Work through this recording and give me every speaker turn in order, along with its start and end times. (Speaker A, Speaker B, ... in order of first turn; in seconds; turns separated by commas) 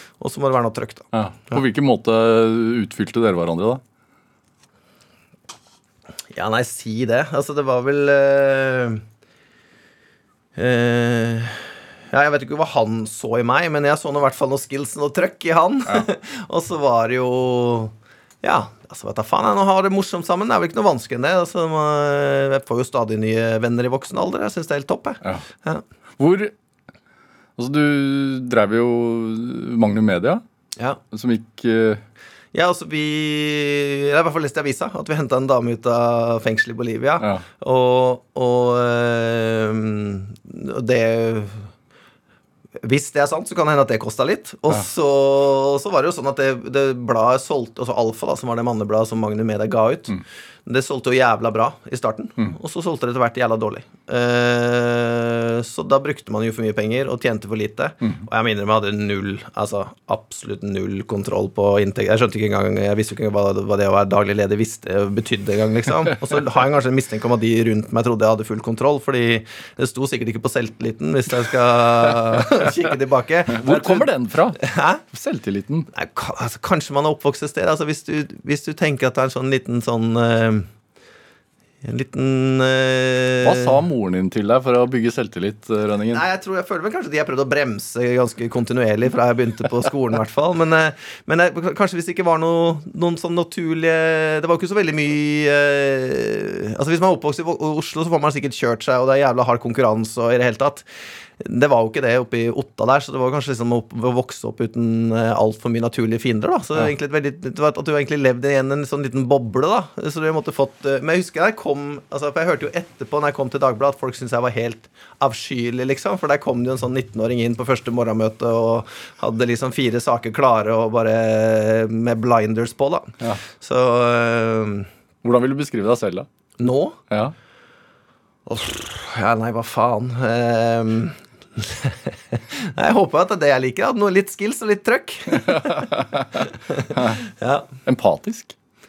Speaker A: 0.2-1.6, Speaker B: 1.1-3.8, Speaker A: 6.3-9.0, Speaker A: 10.6-25.8, Speaker B: 26.2-26.5, Speaker B: 27.6-30.4, Speaker B: 31.1-32.0, Speaker A: 32.5-41.7, Speaker A: 42.8-75.0, Speaker B: 73.5-75.9, Speaker A: 75.9-80.7, Speaker A: 81.8-83.8, Speaker B: 83.4-86.2, Speaker A: 86.1-100.9, Speaker A: 101.4-124.9, Speaker B: 125.2-126.3, Speaker A: 126.6-127.0, Speaker A: 128.5-137.7, Speaker B: 135.5-137.2, Speaker B: 137.8-138.6